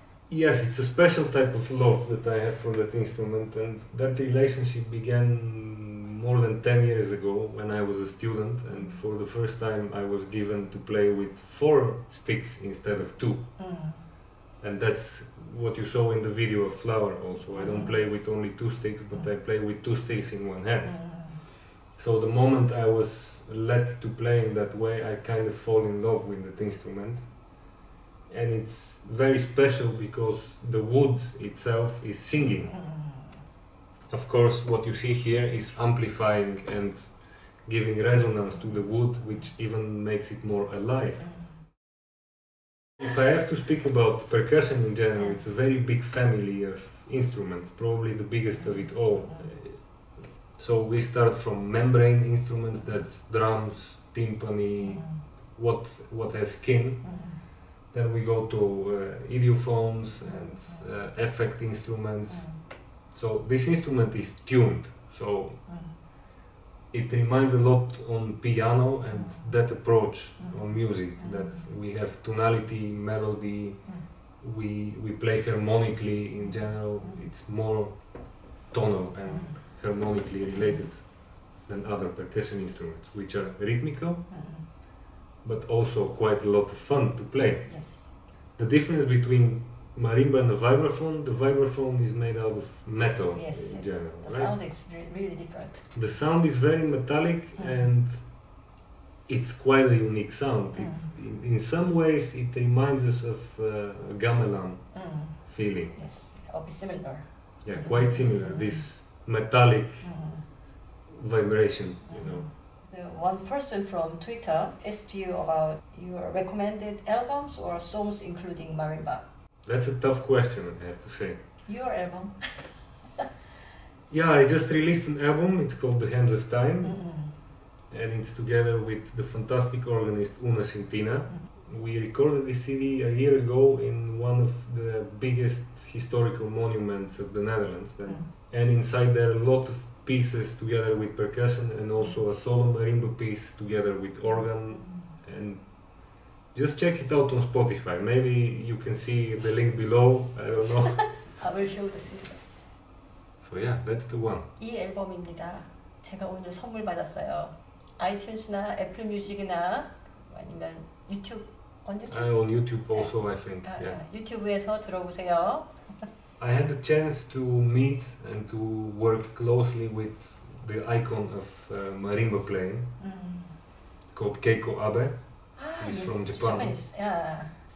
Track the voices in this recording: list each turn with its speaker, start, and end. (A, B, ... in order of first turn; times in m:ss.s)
0:00.3-0:13.6 A
0:13.6-0:14.0 B
0:14.6-0:27.6 A
0:17.6-0:18.0 B
0:20.8-0:21.4 B
0:28.3-0:32.8 A
0:32.9-0:33.3 B
0:34.1-0:41.5 A
0:43.0-1:05.8 A
0:55.0-0:55.2 B
0:57.0-0:57.4 B
1:02.3-1:02.6 B
1:05.7-1:06.0 B
1:06.9-1:24.4 A
1:24.3-1:24.7 B
1:25.4-1:34.6 A
1:27.6-1:28.1 B
1:33.3-1:35.9 B
1:35.9-1:38.4 A
1:37.6-1:37.9 B
1:39.3-1:46.0 A
1:40.8-1:41.1 B
1:44.9-1:48.6 B
1:47.6-1:50.2 A
1:50.0-1:50.4 B
1:51.1-1:52.4 A
1:52.1-1:59.2 B
1:59.6-2:01.5 A
2:01.6-2:03.0 B
2:04.1-2:31.2 A
2:06.8-2:07.4 B
2:24.2-2:25.1 B
2:31.3-2:32.4 B
2:33.4-2:34.5 A
2:34.6-2:46.1 B
2:42.1-2:44.0 A
2:46.4-2:53.0 A
2:53.0-2:53.6 B
2:54.1-2:56.8 A
2:55.5-2:57.5 B